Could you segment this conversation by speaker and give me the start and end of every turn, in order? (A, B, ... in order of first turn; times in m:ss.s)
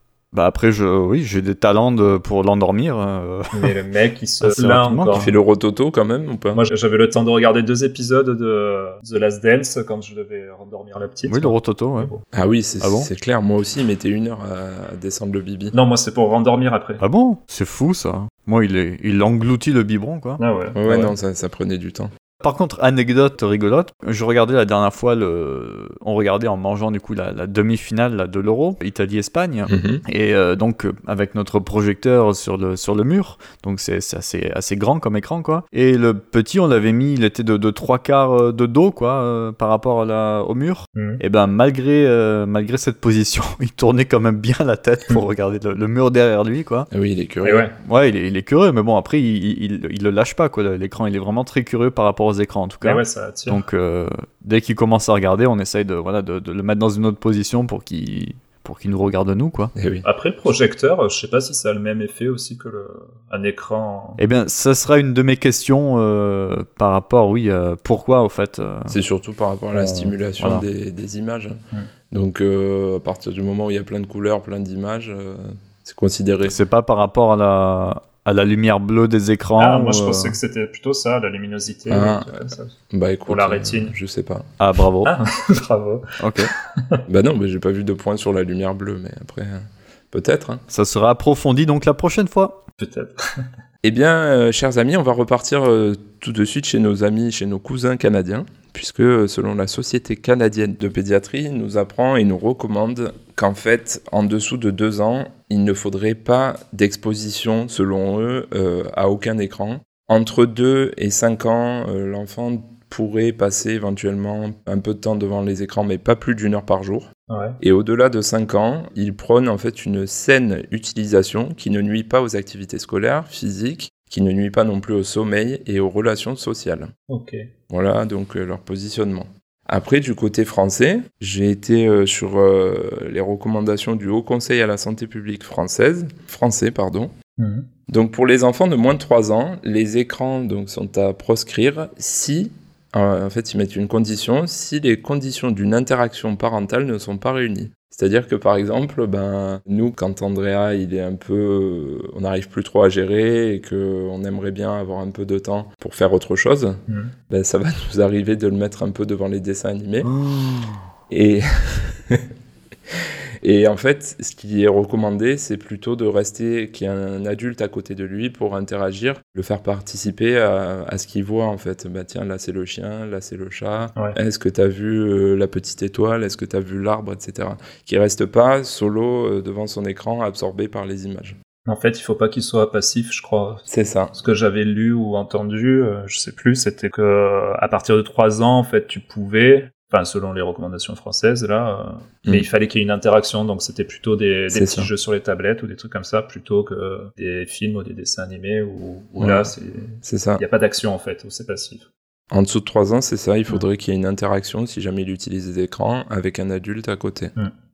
0:00.3-0:03.7 A
0:03.5-0:05.3 B
0:04.4-0:05.3 A
0:05.1-0:06.6 C
0:06.5-0:12.2 B
0:11.3-0:12.1 A
0:12.3-0:15.7 C
0:12.8-0:13.1 A
0:15.7-0:17.0 B
0:17.0-0:20.4 A
0:20.4-0:21.1 B
0:20.7-0:22.1 C
0:22.4-0:46.9 A
0:29.7-0:30.0 C
0:40.9-0:41.2 B
0:46.9-0:47.7 C
0:47.4-0:47.7 B
0:47.8-0:59.7 A
0:52.8-0:53.6 B
0:59.7-1:00.0 C
1:00.0-1:04.2 B
1:04.2-1:08.9 A
1:08.9-1:11.6 C
1:09.7-1:10.6 A
1:12.1-1:16.6 C
1:16.4-1:20.4 A
1:19.6-1:22.8 B
1:21.9-1:24.4 C
1:23.3-1:23.9 B
1:24.6-1:25.1 A
1:25.0-1:27.0 B
1:26.2-1:26.5 A
1:27.1-1:30.6 C
1:30.7-1:32.6 A
1:32.8-1:33.5 B
1:33.8-2:06.9 C
1:57.3-1:57.6 B
2:07.1-2:07.5 B
2:07.7-2:17.1 C
2:17.4-2:17.7 B
2:17.9-2:40.1 C
2:36.9-2:37.1 B
2:40.0-2:40.8 A
2:41.1-2:42.3 C
2:42.9-3:01.4 C
3:01.6-3:21.9 B
3:03.7-3:04.1 C
3:14.5-3:14.9 C
3:19.2-3:19.5 C
3:20.0-3:20.4 C
3:22.3-3:27.3 C